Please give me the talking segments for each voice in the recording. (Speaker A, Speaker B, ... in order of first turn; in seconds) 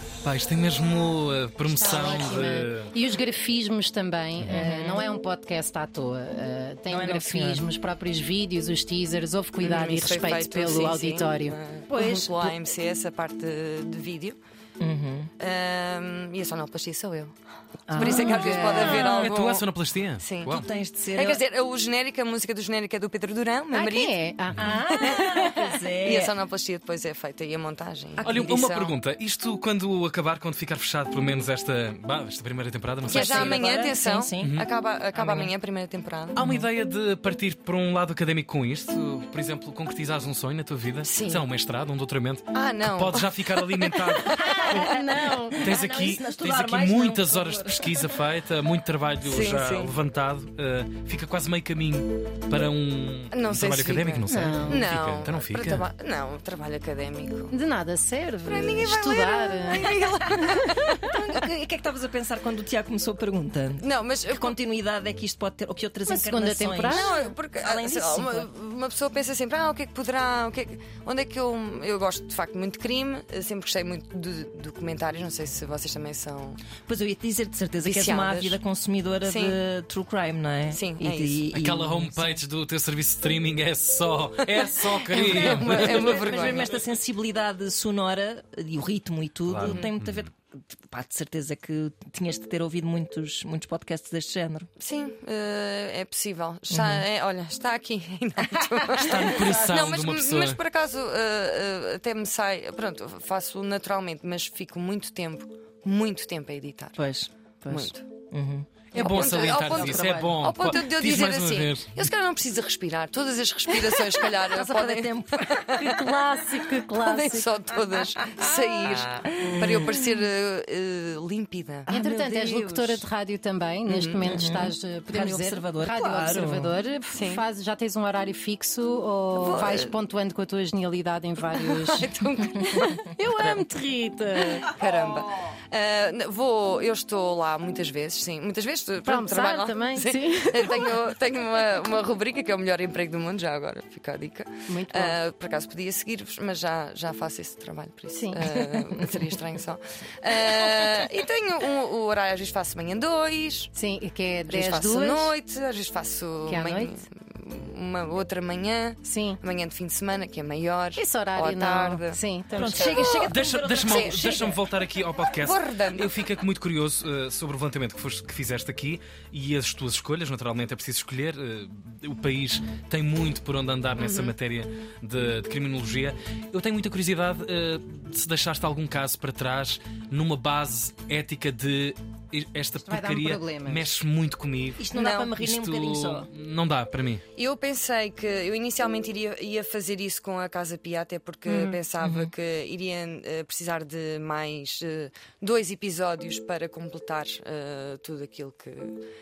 Speaker A: 0.2-2.9, 18.9-20.7, 28.2-33.7, 34.4-34.6, 36.3-44.9, 45.6-55.8, 81.5-86.2, 89.5-90.2, 99.0-100.6, 108.9-112.0, 163.2-184.8, 185.4-187.2
Speaker B: 1.7-11.6, 17.9-19.0, 23.7-25.6, 44.5-45.7, 54.3-54.9, 57.5-60.8, 66.0-67.3, 115.8-117.5, 121.9-132.1, 133.1-134.7, 139.0-140.9, 144.7-145.2, 148.2-148.4, 153.7-155.3, 156.5-156.9, 159.0-159.4, 160.9-162.9, 182.8-183.9, 191.5-191.8
Speaker C: 4.5-5.0, 6.9-7.7, 11.9-12.5, 14.8-15.3, 17.9-19.2, 20.5-21.4, 24.6-26.3, 28.2-28.5, 33.1-34.5, 35.1-35.5, 44.5-48.2, 59.8-68.5, 76.9-82.2, 85.1-94.7, 96.7-97.0, 107.0-110.4, 114.4-115.7, 118.3-120.0, 121.9-123.0, 124.2-126.8, 162.5-164.6, 184.8-186.3, 192.0-192.3
Speaker D: 9.6-14.4, 15.4-17.3, 17.9-19.6, 20.2-24.2, 24.9-25.3, 26.0-28.9, 33.0-36.4, 41.0-41.4, 42.5-44.9, 49.2-49.9, 53.3-57.5, 58.4-61.2, 63.8-64.5, 66.9-76.6, 77.8-78.6, 79.2-79.6, 80.7-81.4, 84.4-86.8, 94.8-107.0, 107.7-108.0, 108.9-116.1, 117.0-121.9, 123.8-124.3, 127.1-127.4, 129.3-129.9, 131.5-133.6, 134.6-153.7, 154.5-162.2, 162.7-163.3, 163.8-164.3, 165.4-166.1, 174.0-174.3, 184.9-185.3, 187.3-199.0